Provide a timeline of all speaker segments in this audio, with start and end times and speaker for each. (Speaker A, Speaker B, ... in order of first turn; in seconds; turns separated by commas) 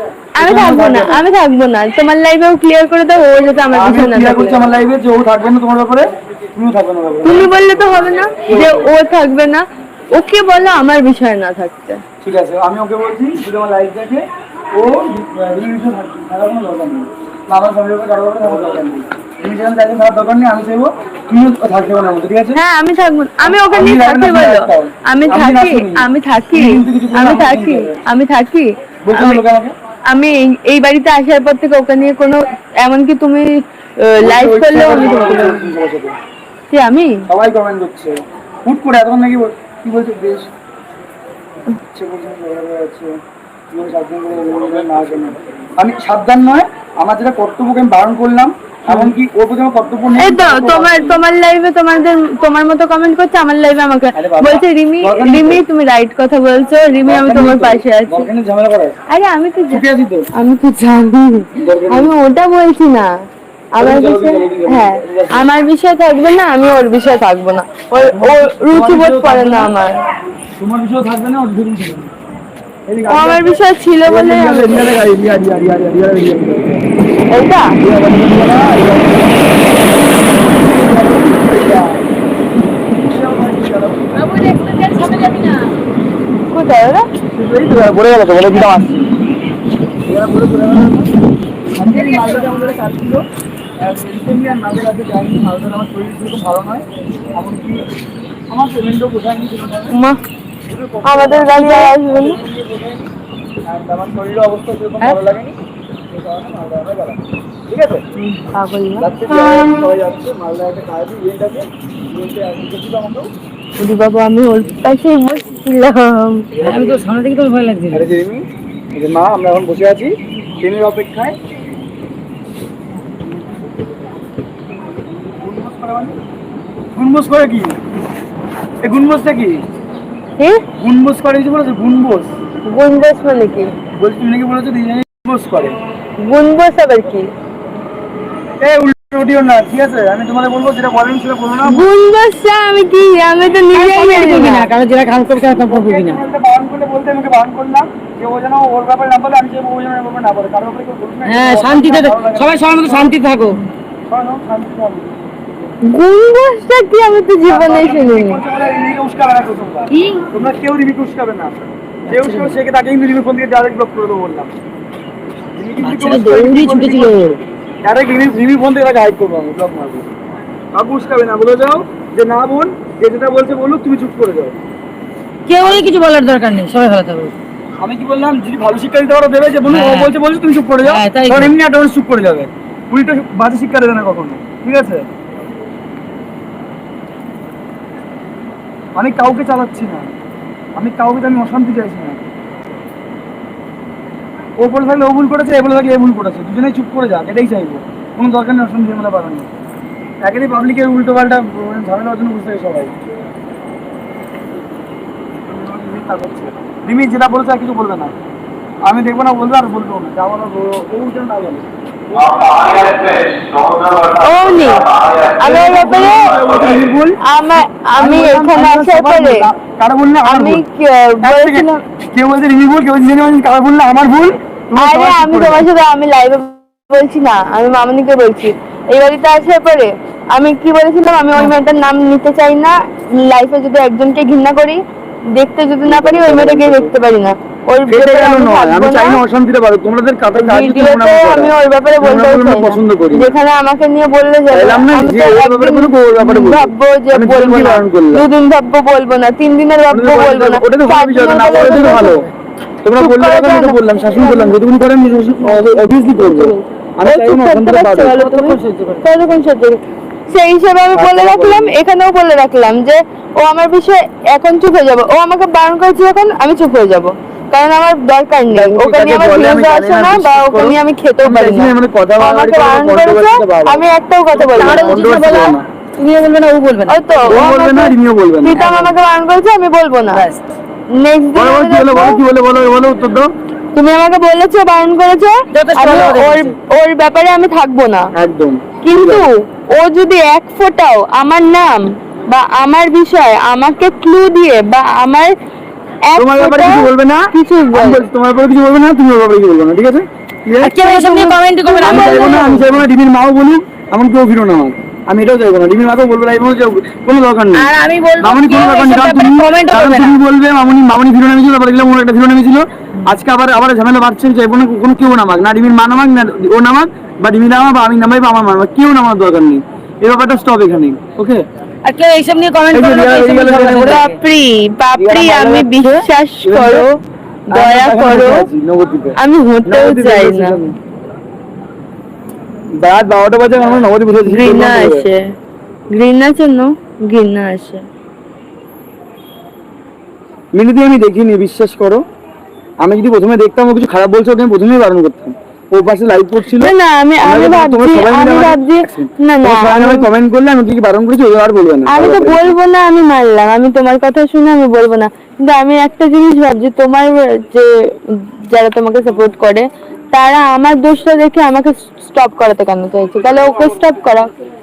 Speaker A: 0.3-4.6, Speaker B: 0.4-1.2, Speaker B: 3.7-7.5, Speaker A: 7.2-12.0, Speaker B: 8.4-8.9, Speaker B: 12.2-22.6, Speaker A: 22.5-29.4, Speaker B: 23.4-28.0, Speaker B: 29.0-29.7, Speaker A: 30.1-35.7, Speaker B: 34.2-36.1, Speaker A: 36.7-37.2, Speaker B: 37.3-40.5, Speaker B: 41.9-43.1, Speaker B: 43.7-51.2, Speaker A: 50.2-58.3, Speaker B: 54.1-55.6, Speaker B: 57.0-59.0, Speaker A: 59.1-59.8, Speaker B: 59.7-60.3, Speaker A: 60.4-63.1, Speaker B: 61.6-62.1, Speaker A: 63.7-70.0, Speaker B: 63.8-65.5, Speaker B: 68.0-69.7, Speaker B: 70.6-72.1, Speaker B: 72.9-73.4, Speaker A: 73.1-74.9, Speaker B: 74.0-76.8, Speaker A: 77.3-77.8, Speaker B: 77.8-79.6, Speaker B: 80.5-82.0, Speaker B: 83.0-84.2, Speaker C: 84.2-85.7, Speaker A: 86.5-87.0, Speaker B: 87.3-89.1, Speaker B: 90.0-91.1, Speaker B: 91.7-93.2, Speaker C: 92.0-92.3, Speaker B: 93.8-97.8, Speaker B: 98.5-99.9, Speaker A: 99.9-100.2, Speaker B: 100.7-103.0, Speaker A: 101.0-102.4, Speaker B: 103.6-105.5, Speaker B: 106.1-108.0, Speaker A: 108.2-109.1, Speaker B: 109.0-113.3, Speaker A: 113.8-116.5, Speaker B: 116.5-117.0, Speaker C: 116.6-118.1, Speaker B: 117.9-121.3, Speaker B: 125.4-126.2, Speaker B: 126.9-127.8, Speaker B: 128.8-129.6, Speaker B: 130.8-132.3, Speaker A: 132.7-133.7, Speaker B: 134.0-135.8, Speaker A: 136.2-137.3, Speaker B: 138.6-141.9, Speaker A: 141.6-144.7, Speaker C: 143.7-146.2, Speaker B: 145.3-153.2, Speaker C: 151.2-153.6, Speaker B: 154.1-155.5, Speaker A: 155.9-158.4, Speaker B: 157.4-164.5, Speaker C: 162.1-162.6, Speaker B: 165.5-167.1, Speaker C: 165.8-167.4, Speaker A: 166.2-167.3, Speaker B: 167.8-170.1, Speaker B: 170.7-174.5, Speaker C: 175.5-177.3, Speaker B: 177.8-185.1, Speaker C: 179.7-180.2, Speaker C: 180.8-181.5, Speaker B: 188.9-190.1, Speaker B: 190.8-192.2, Speaker B: 194.6-199.5, Speaker B: 200.2-202.9, Speaker B: 205.4-208.1, Speaker B: 208.8-213.3, Speaker A: 214.1-216.3, Speaker B: 215.4-220.6, Speaker A: 217.2-219.4, Speaker A: 220.2-221.8, Speaker B: 221.2-225.7, Speaker A: 224.8-234.8, Speaker A: 235.3-239.2, Speaker B: 235.8-236.9, Speaker B: 237.9-243.3, Speaker A: 240.3-252.3, Speaker B: 244.5-248.3, Speaker B: 249.9-252.3, Speaker B: 252.8-258.2, Speaker A: 253.0-254.6, Speaker A: 255.1-275.5, Speaker C: 258.1-259.1, Speaker B: 260.9-261.8, Speaker B: 268.5-273.8, Speaker C: 274.4-277.4, Speaker B: 274.5-275.6, Speaker A: 276.9-280.2, Speaker B: 277.3-278.7, Speaker C: 278.5-278.9, Speaker C: 280.1-280.4, Speaker A: 281.0-282.2, Speaker B: 281.3-283.3, Speaker A: 283.7-288.1, Speaker C: 285.5-286.6, Speaker B: 288.1-289.3, Speaker A: 288.8-295.3, Speaker A: 296.0-298.1, Speaker B: 296.2-300.8, Speaker C: 300.6-302.7, Speaker A: 300.8-302.6, Speaker B: 301.8-321.4, Speaker C: 307.6-310.2, Speaker C: 321.8-324.1, Speaker B: 322.7-324.0, Speaker A: 323.8-327.0, Speaker B: 324.9-326.9, Speaker A: 327.5-328.5, Speaker B: 327.5-330.8, Speaker A: 329.2-330.6, Speaker B: 332.8-335.1, Speaker A: 334.2-335.2, Speaker A: 335.9-337.8, Speaker B: 340.5-342.0, Speaker B: 342.8-346.7, Speaker A: 346.5-350.1, Speaker B: 347.2-352.6, Speaker A: 351.9-357.7, Speaker A: 358.5-364.3